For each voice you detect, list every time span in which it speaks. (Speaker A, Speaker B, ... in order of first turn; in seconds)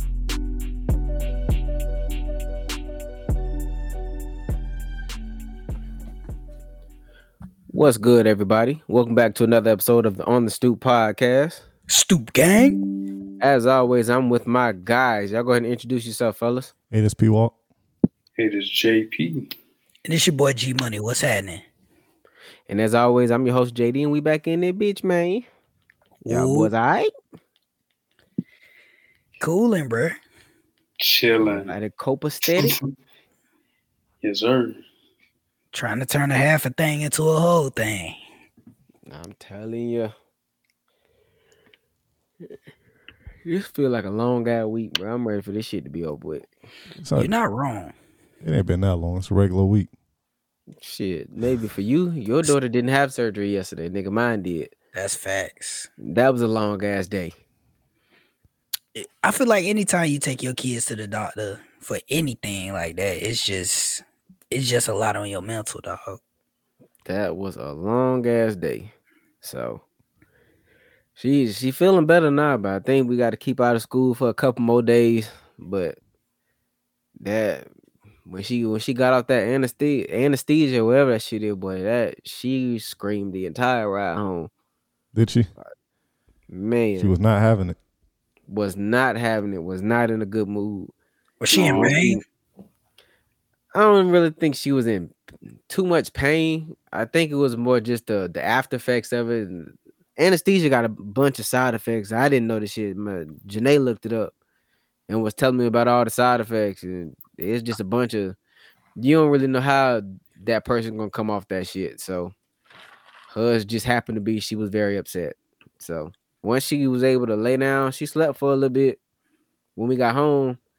Speaker A: 7.7-11.6, 13.4-16.7, 22.7-25.5, 26.2-27.1, 31.4-32.8, 39.0-40.1, 43.4-46.5, 50.8-54.7, 56.0-57.3, 67.0-69.8, 71.2-76.0, 77.2-77.7, 78.2-84.5, 86.5-87.1, 88.5-90.9, 91.6-92.2, 93.7-95.1, 95.7-104.3, 105.1-108.4, 109.0-112.3, 113.3-119.0, 119.8-120.6
Speaker B: 11.9-12.8, 20.0-21.6, 26.2-26.7, 29.4-30.2, 35.7-38.2, 47.1-47.9, 54.9-55.9, 58.9-66.2, 91.4-92.2
Speaker C: 16.9-17.5, 47.0-47.3, 48.4-49.9, 85.1-85.5, 87.0-87.8
Speaker D: 18.4-19.5, 31.0-31.7, 34.2-34.8, 91.5-92.0